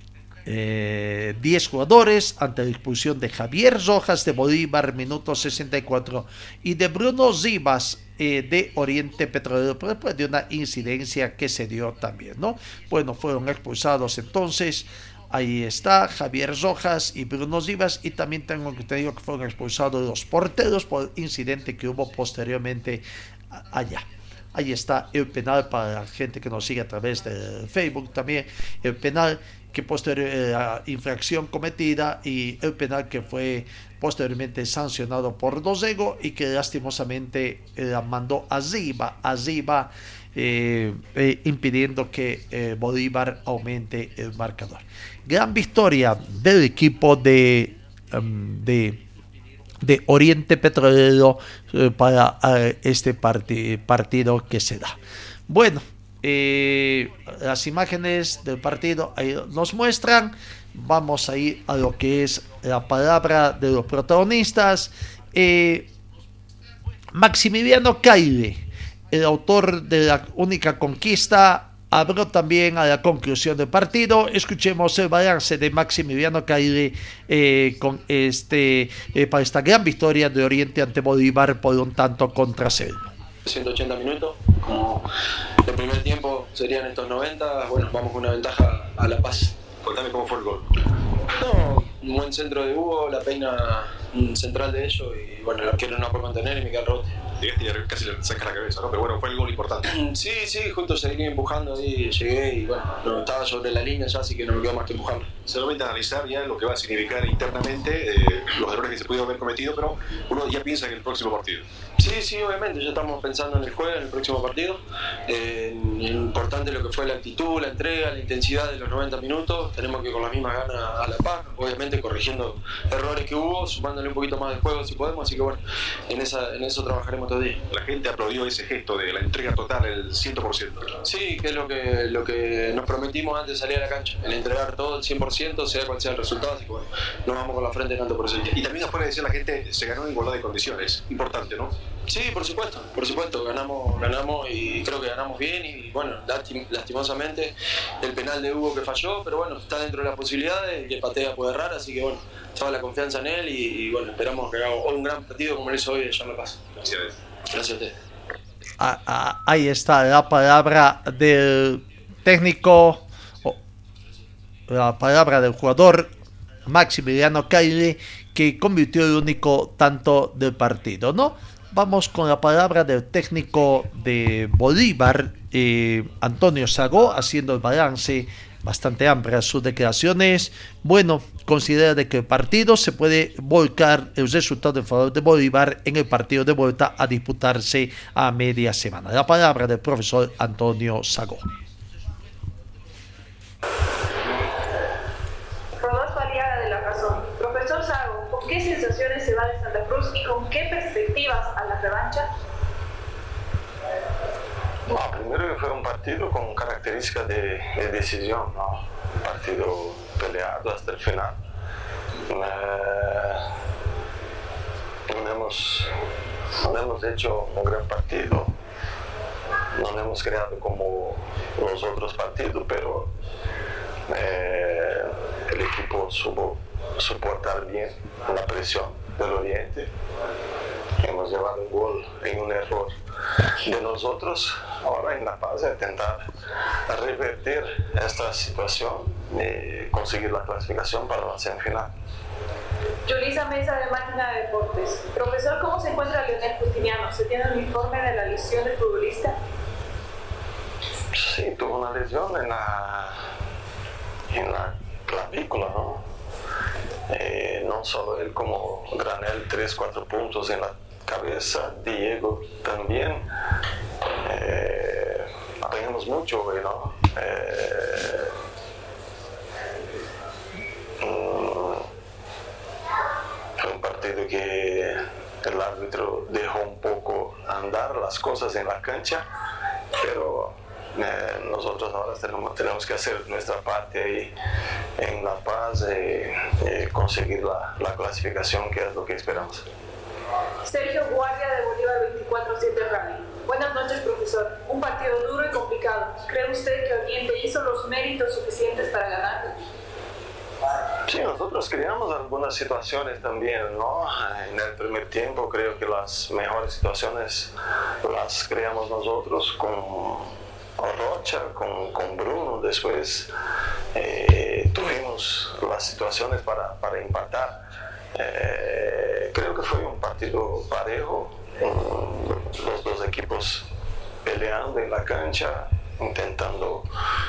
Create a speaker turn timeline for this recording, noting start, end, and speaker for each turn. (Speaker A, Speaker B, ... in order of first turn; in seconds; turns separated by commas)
Speaker A: 0.5-49.0, Speaker A: 49.8-55.0, Speaker A: 55.5-65.9, Speaker A: 67.1-83.1, Speaker B: 83.5-85.0, Speaker B: 85.6-89.6, Speaker C: 89.8-90.6, Speaker B: 91.3-97.2, Speaker C: 97.4-99.8, Speaker B: 99.9-105.3, Speaker C: 105.4-111.7, Speaker B: 112.0-127.6, Speaker C: 127.7-130.9, Speaker B: 131.0-138.5, Speaker C: 138.5-141.7, Speaker B: 142.1-156.6, Speaker C: 156.8-157.1, Speaker B: 157.5-157.9, Speaker A: 158.8-163.6, Speaker A: 164.7-166.1, Speaker A: 166.7-191.4, Speaker D: 195.8-202.3, Speaker E: 204.9-211.4, Speaker E: 212.3-213.4, Speaker E: 215.1-215.9, Speaker E: 216.6-218.5, Speaker E: 219.7-223.1, Speaker E: 224.1-229.9, Speaker E: 231.0-232.9, Speaker E: 233.6-236.2, Speaker E: 236.9-241.9, Speaker D: 243.1-249.3, Speaker E: 251.1-253.2, Speaker E: 254.3-256.0, Speaker E: 257.1-263.2, Speaker E: 264.2-268.3, Speaker E: 271.0-271.9, Speaker E: 273.6-279.2, Speaker E: 279.9-284.3, Speaker E: 285.0-289.6, Speaker D: 290.6-299.6, Speaker E: 301.1-307.5, Speaker E: 308.0-313.3, Speaker E: 313.9-317.6, Speaker E: 318.1-323.6, Speaker E: 324.2-326.8